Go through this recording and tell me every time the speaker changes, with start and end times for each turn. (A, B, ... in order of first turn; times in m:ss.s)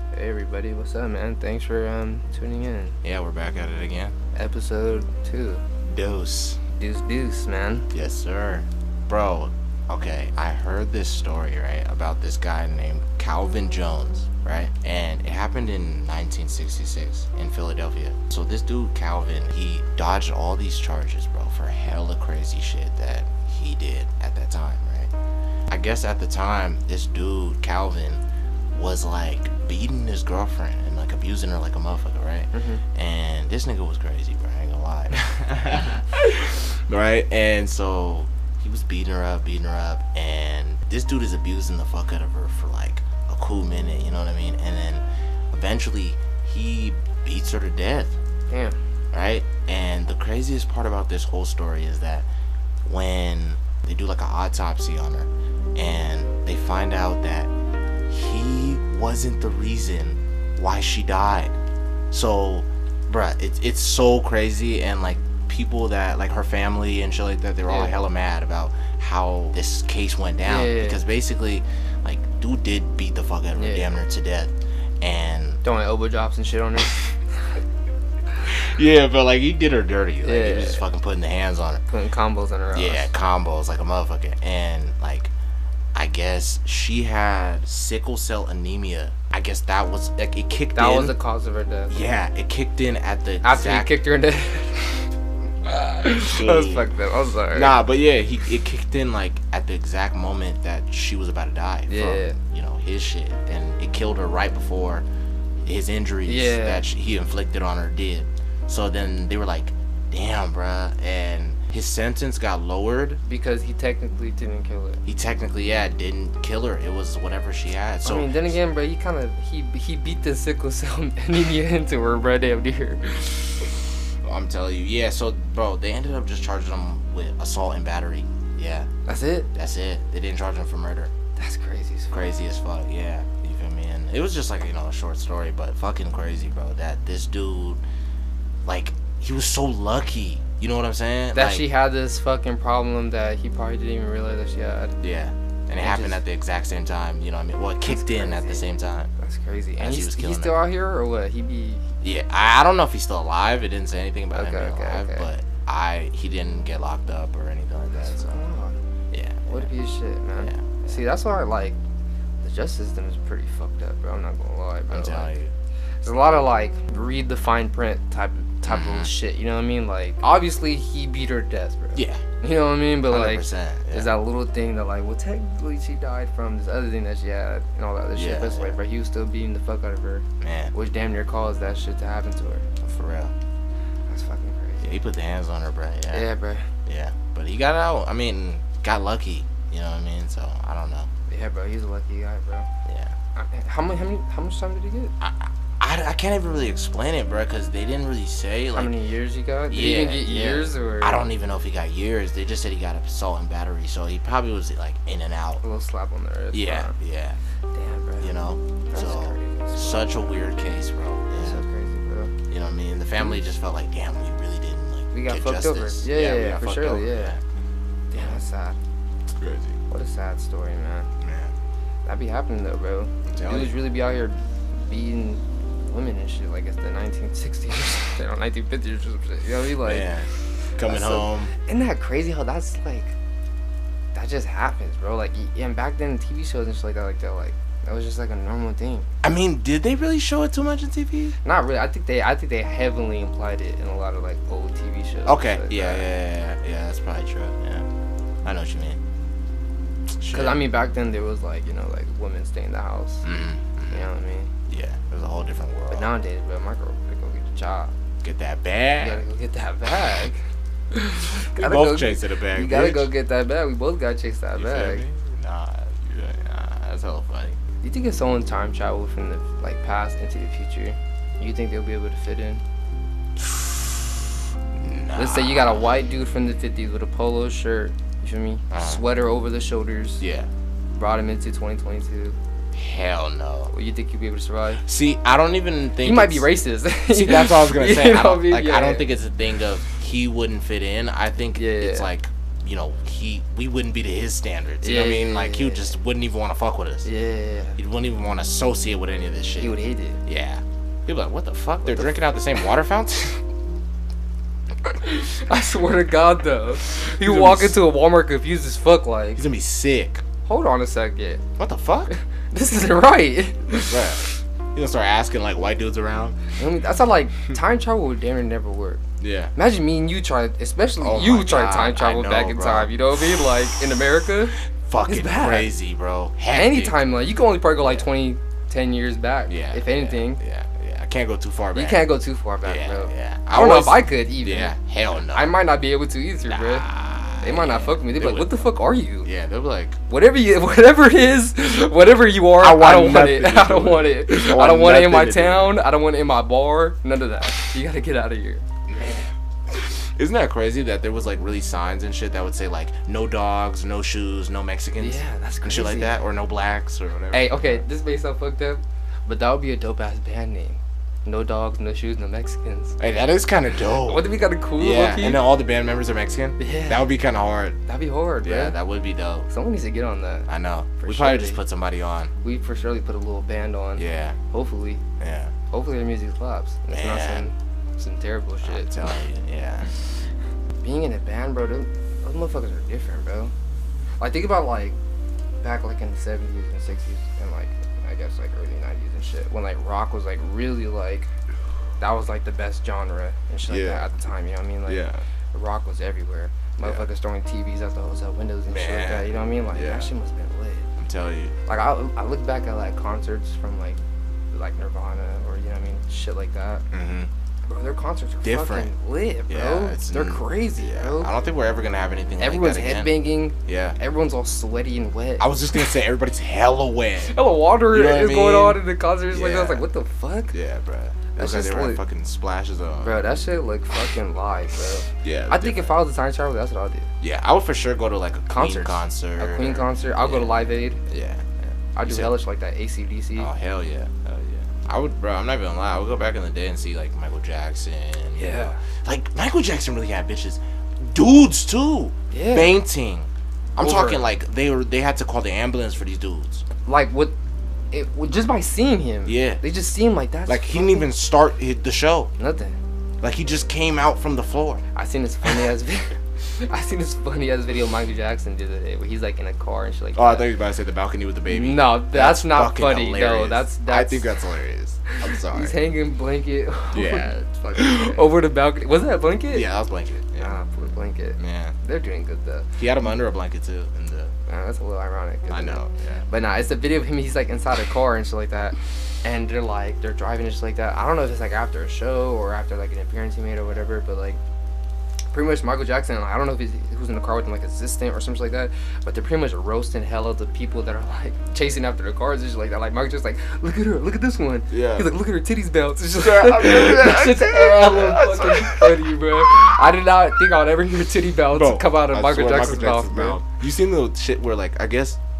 0:00.1-0:03.0 A
0:03.0-0:04.1 B
0:04.3-0:05.6 A
0:05.8-0:06.6 B
0:06.7-0:07.9 A
0:07.9-0:25.1 B
0:25.7-0:28.2 B
0:28.7-0:48.2 B
0:32.5-0:32.8 A
0:48.5-0:48.8 A
0:49.1-0:52.3 B
0:52.8-0:57.5 B
0:58.1-1:01.6 B
1:02.1-1:15.6 B
1:07.7-1:08.0 A
1:10.4-1:11.0 A
1:13.5-1:13.9 A
1:15.6-1:17.6 A
1:18.4-1:21.8 B
1:20.2-1:20.8 A
1:21.9-1:23.1 A
1:22.7-1:25.3 B
1:25.9-1:31.1 B
1:30.7-1:31.9 A
1:31.9-1:33.9 B
1:33.4-1:34.8 A
1:35.6-1:36.9 B
1:36.0-1:37.8 A
1:37.5-1:45.0 B
1:41.9-1:42.4 A
1:45.6-1:53.2 B
1:46.2-1:46.8 A
1:53.2-1:55.0 A
1:55.0-1:58.5 B
1:58.0-2:03.2 A
2:04.2-2:08.9 B
2:09.0-2:09.5 A
2:09.5-2:11.1 B
2:11.4-2:12.3 A
2:12.1-2:17.8 B
2:18.6-2:21.6 B
2:21.3-2:25.0 A
2:25.0-2:29.1 B
2:25.8-2:26.2 A
2:27.8-2:28.6 A
2:29.2-2:31.9 A
2:29.8-2:30.6 B
2:32.0-2:38.4 B
2:34.3-2:35.3 A
2:37.9-2:38.8 A
2:39.1-2:39.7 B
2:39.5-2:41.8 A
2:40.4-2:41.0 B
2:42.4-2:45.3 A
2:44.9-2:45.5 B
2:46.0-3:02.6 A
2:48.6-2:49.1 B
2:52.0-2:52.2 B
2:53.1-2:54.1 B
2:58.1-2:58.8 B
3:00.4-3:00.7 B
3:02.8-3:03.3 B
3:04.1-3:04.9 A
3:04.8-3:06.3 B
3:06.1-3:06.7 A
3:06.8-3:11.1 B
3:11.3-3:12.7 A
3:12.8-3:13.1 B
3:13.3-3:15.1 A
3:15.2-3:18.9 B
3:18.7-3:21.3 A
3:19.7-3:25.6 B
3:25.6-3:26.9 A
3:26.5-3:27.4 B
3:27.7-3:28.3 A
3:28.2-3:31.6 B
3:28.9-3:30.4 A
3:31.4-3:32.3 A
3:32.5-3:37.4 B
3:35.1-3:37.4 A
3:38.1-3:38.8 A
3:39.4-3:39.8 B
3:39.9-3:41.1 A
3:41.2-3:41.5 B
3:42.0-3:50.1 A
3:43.3-3:43.8 B
3:49.8-3:51.5 B
3:50.8-3:53.1 A
3:54.1-3:59.1 A
3:59.2-4:01.4 B
4:01.4-4:06.0 A
4:05.2-4:07.9 B
4:08.4-4:09.0 B
4:10.2-4:10.7 B
4:10.3-4:13.2 A
4:13.2-4:14.1 B
4:13.9-4:14.5 A
4:14.7-4:16.1 B
4:15.9-4:17.9 A
4:18.2-4:19.2 B
4:19.0-4:25.0 A
4:21.5-4:23.1 B
4:24.5-4:27.6 B
4:27.8-4:32.6 A
4:33.4-4:34.1 B
4:34.8-4:35.8 B
4:35.2-4:40.2 A
4:38.7-4:39.0 B
4:40.2-4:40.5 B
4:40.9-4:42.4 A
4:42.7-4:43.7 B
4:43.7-4:44.8 A
4:44.8-4:46.5 B
4:46.0-4:49.1 A
4:47.1-4:57.1 B
4:51.6-4:52.1 A
4:54.8-4:55.9 A
4:57.0-4:57.8 A
4:57.8-5:03.4 B
4:59.6-5:00.2 A
5:01.8-5:02.6 A
5:04.8-5:09.4 A
5:07.0-5:07.8 B
5:09.4-5:10.2 B
5:10.4-5:11.4 A
5:11.6-5:12.1 B
5:12.1-5:14.0 A
5:13.8-5:16.6 B
5:16.6-5:19.0 A
5:19.2-5:19.5 B
5:19.6-5:24.5 A
5:21.0-5:22.9 B
5:24.7-5:27.0 B
5:25.1-5:25.7 A
5:26.5-5:30.4 A
5:29.5-5:32.1 B
5:31.7-5:34.7 A
5:32.6-5:35.5 B
5:35.3-5:36.8 A
5:36.5-5:38.5 B
5:37.4-5:39.3 A
5:39.2-5:40.0 B
5:40.1-5:48.7 A
5:42.6-5:45.8 B
5:48.9-5:57.8 B
5:55.0-5:56.2 A
5:57.3-6:03.0 A
6:03.0-6:07.8 B
6:03.9-6:05.4 A
6:06.6-6:07.0 A
6:07.9-6:08.8 A
6:08.4-6:09.5 B
6:09.5-6:10.5 A
6:10.5-6:12.3 B
6:11.0-6:11.6 A
6:12.4-6:15.0 A
6:14.0-6:14.4 B
6:15.2-6:15.5 B
6:15.7-6:19.1 A
6:16.9-6:17.5 B
6:18.6-6:19.9 B
6:20.8-6:23.5 A
6:24.2-6:25.0 A
6:25.6-6:31.3 A
6:32.0-6:40.9 A
6:33.7-6:34.1 B
6:34.8-6:35.2 B
6:38.7-6:40.1 B
6:41.0-6:41.6 B
6:41.6-6:44.0 A
6:44.5-6:46.8 A
6:46.9-6:47.3 B
6:47.6-6:51.3 A
6:48.4-6:48.9 B
6:49.5-6:53.1 B
6:52.4-6:55.9 A
6:53.6-6:54.0 B
6:55.4-6:59.8 B
6:57.3-7:00.5 A
7:00.5-7:03.2 B
7:01.4-7:02.0 A
7:03.0-7:07.1 A
7:05.2-7:05.9 B
7:07.2-7:12.3 B
7:08.5-7:11.0 A
7:12.0-7:13.5 A
7:13.4-7:26.6 B
7:18.4-7:18.8 A
7:22.3-7:22.8 A
7:23.8-7:24.2 A
7:26.8-7:27.3 A
7:27.9-7:31.1 A
7:29.2-7:29.6 B
7:30.4-7:32.3 B
7:32.4-7:32.8 A
7:33.2-7:34.8 B
7:34.9-7:40.5 A
7:40.2-7:45.8 B
7:41.5-7:44.3 A
7:45.1-7:49.7 A
7:46.9-7:48.3 B
7:49.5-7:50.6 B
7:50.4-7:52.8 A
7:51.4-7:51.8 B
7:52.8-7:54.3 B
7:54.5-8:04.4 A
7:55.5-7:56.3 B
8:05.3-8:23.4 A
8:14.7-8:15.1 B
8:16.2-8:19.0 B
8:21.5-8:25.2 B